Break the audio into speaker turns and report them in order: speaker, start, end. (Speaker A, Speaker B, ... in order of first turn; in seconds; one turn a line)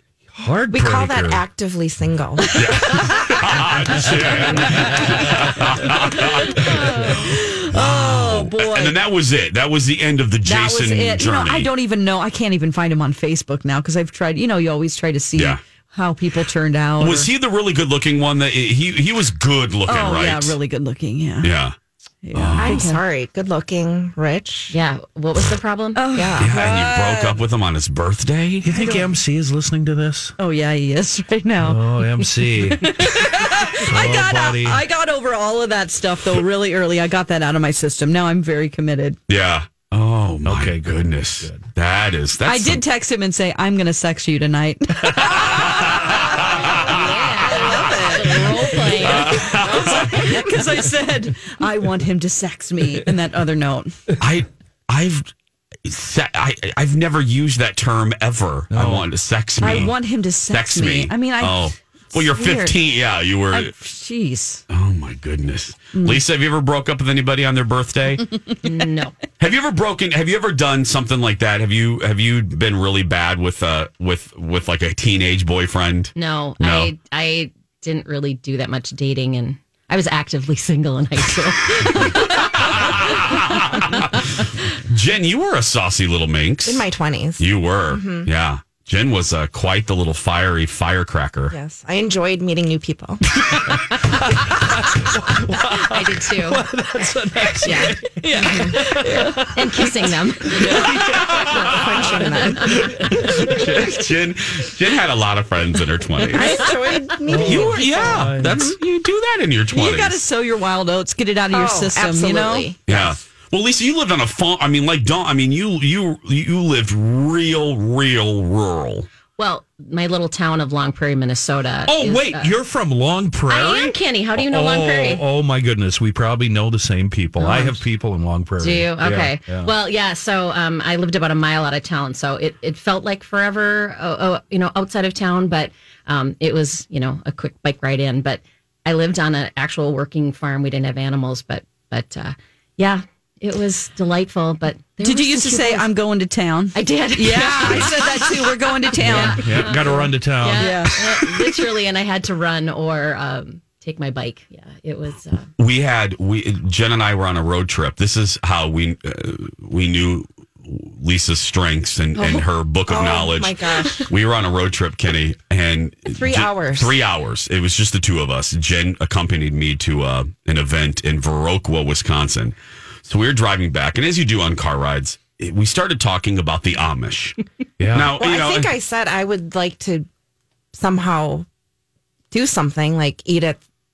Speaker A: 0.3-1.4
Speaker B: 0.7-2.5
Speaker C: 2.5-11.7
Speaker D: 3.0-3.2
Speaker D: 4.0-4.7
Speaker A: 4.6-5.0
Speaker D: 6.1-9.0
Speaker D: 10.4-17.3
Speaker C: 17.0-20.6
Speaker D: 19.9-21.6
Speaker C: 21.4-21.8
Speaker D: 22.2-23.0
Speaker C: 22.4-22.8
Speaker B: 22.6-24.8
Speaker E: 24.7-26.1
Speaker D: 25.9-27.4
Speaker B: 26.1-26.6
Speaker C: 26.4-28.7
Speaker A: 28.6-30.3
Speaker D: 28.7-29.1
Speaker D: 30.4-39.2
Speaker A: 31.6-32.9
Speaker A: 33.9-34.8
Speaker C: 39.3-42.8
Speaker A: 40.4-41.7
Speaker D: 42.5-54.0
Speaker E: 46.6-49.5
Speaker C: 47.0-48.2
Speaker C: 49.0-50.4
Speaker C: 54.2-55.3
Speaker C: 55.9-63.7
Speaker A: 58.7-59.1
Speaker D: 59.6-62.8
Speaker D: 63.5-64.6
Speaker C: 64.7-68.4
Speaker D: 66.0-66.2
Speaker E: 68.6-69.2
Speaker C: 69.4-76.9
Speaker E: 76.2-83.0
Speaker C: 83.7-84.1
Speaker C: 84.9-91.6
Speaker B: 86.7-88.3
Speaker B: 91.5-93.2
Speaker A: 95.2-99.9
Speaker E: 95.7-96.7
Speaker E: 97.6-100.8
Speaker D: 98.2-99.4
Speaker A: 100.4-101.8
Speaker C: 101.0-106.7
Speaker B: 101.4-102.7
Speaker B: 106.3-108.4
Speaker A: 107.2-108.7
Speaker C: 107.4-110.2
Speaker D: 109.7-112.7
Speaker B: 111.5-113.2
Speaker C: 112.9-119.1
Speaker E: 119.4-122.6
Speaker A: 121.9-129.7
Speaker E: 123.5-125.2
Speaker E: 127.4-127.8
Speaker E: 128.6-146.0
Speaker D: 145.0-149.5
Speaker E: 146.7-155.5
Speaker A: 149.0-151.1
Speaker D: 150.6-151.3
Speaker C: 155.6-178.7
Speaker E: 162.2-162.5
Speaker B: 162.9-164.1
Speaker B: 166.1-167.0
Speaker A: 177.8-178.1
Speaker B: 178.1-180.1
Speaker B: 180.7-181.5
Speaker B: 182.3-183.6